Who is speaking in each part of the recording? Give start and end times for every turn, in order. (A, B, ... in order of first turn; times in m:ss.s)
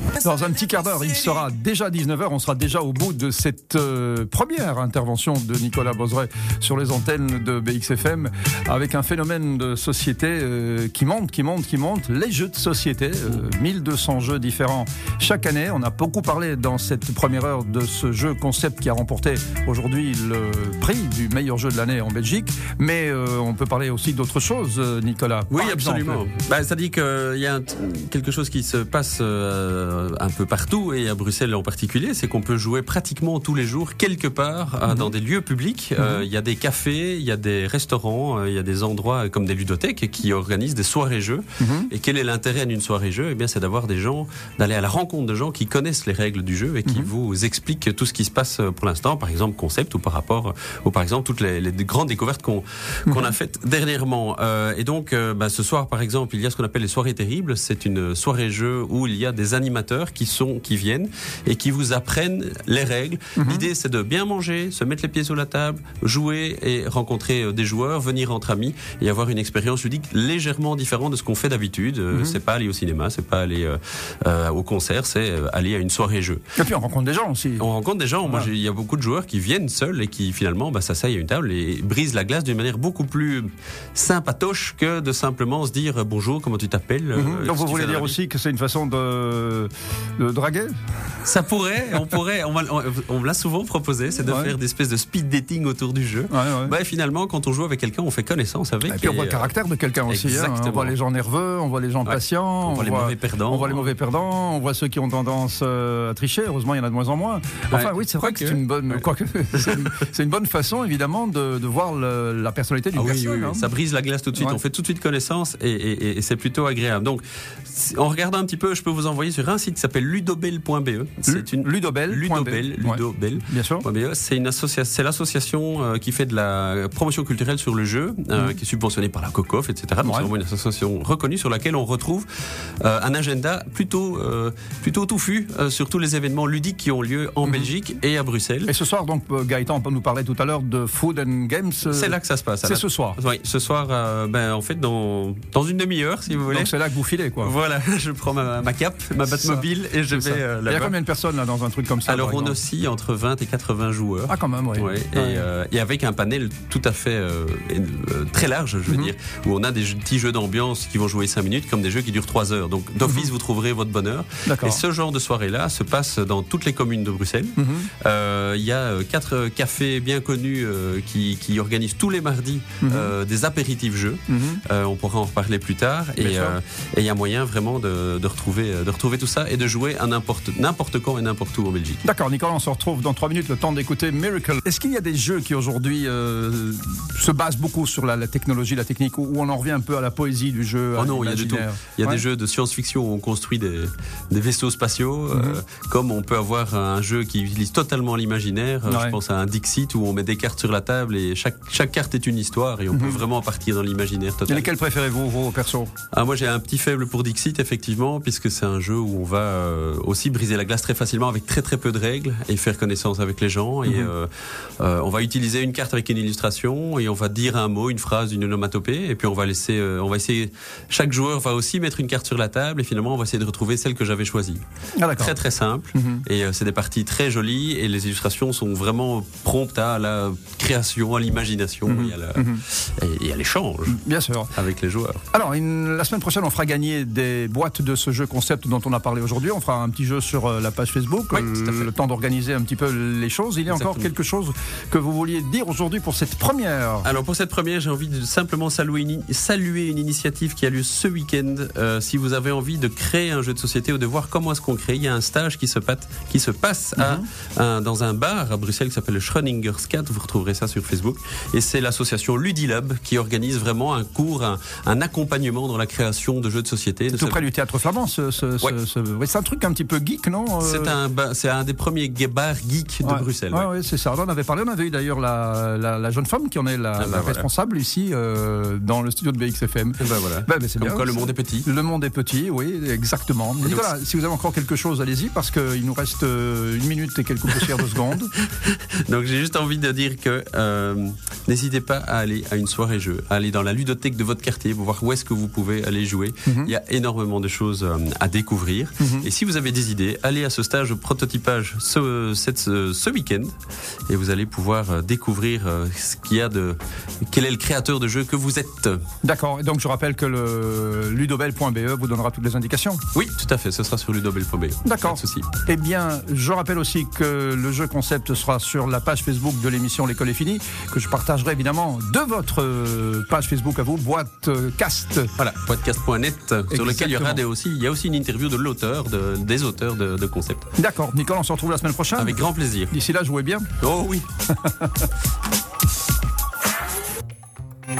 0:00.2-0:26.2 A
0:25.5-1:16.4 B
0:36.0-0:36.3 A
0:41.6-0:41.9 A
1:03.4-1:03.7 A
1:12.1-1:12.4 A
1:16.6-1:17.7 A
1:17.6-1:28.2 B
1:27.2-1:30.8 A
1:31.2-1:39.5 B
1:34.3-1:34.6 A
1:36.3-1:36.7 A
1:38.9-1:53.7 A
1:40.1-1:41.0 B
1:42.1-1:43.9 B
1:47.7-1:49.0 B
1:52.9-2:12.3 B
2:01.3-2:03.9 A
2:10.0-2:10.3 A
2:12.8-2:18.7 B
2:17.4-2:17.7 A
2:18.7-2:23.2 A
2:21.8-2:26.8 B
2:26.4-2:27.6 A
2:27.4-2:31.0 B
2:29.2-2:32.6 A
2:32.1-3:02.0 B
2:34.3-2:35.5 A
2:44.4-2:44.8 A
2:47.6-2:47.9 A
2:52.8-2:53.1 A
2:54.3-2:54.6 A
2:56.2-2:56.6 A
3:02.0-3:12.2 A
3:11.0-3:24.7 B
3:15.3-3:15.6 A
3:18.9-3:19.2 A
3:22.9-3:23.2 A
3:24.5-3:25.9 A
3:26.1-3:44.6 B
3:33.9-3:34.1 A
3:45.0-3:45.4 A
3:45.2-3:54.0 B
3:45.9-3:46.2 A
3:51.9-3:52.6 A
3:53.9-3:54.5 A
3:54.5-3:55.2 B
3:55.3-4:07.1 A
4:01.3-4:01.9 B
4:03.7-4:04.1 B
4:07.0-4:27.5 B
4:17.0-4:17.3 A
4:27.1-4:31.0 A
4:30.6-4:33.7 B
4:33.0-4:48.3 A
4:37.0-4:37.5 B
4:40.0-4:41.7 B
4:43.6-4:43.9 B
4:48.6-5:03.5 B
4:56.5-4:56.7 A
4:59.0-4:59.3 A
5:04.1-5:09.0 B
5:09.2-5:13.0 A
5:13.1-5:15.5 B
5:14.8-5:25.3 A
5:25.4-5:30.6 B
5:26.7-5:27.4 A
5:30.8-5:33.7 A
5:32.2-5:32.9 B
5:33.8-5:34.2 B
5:34.6-5:34.9 A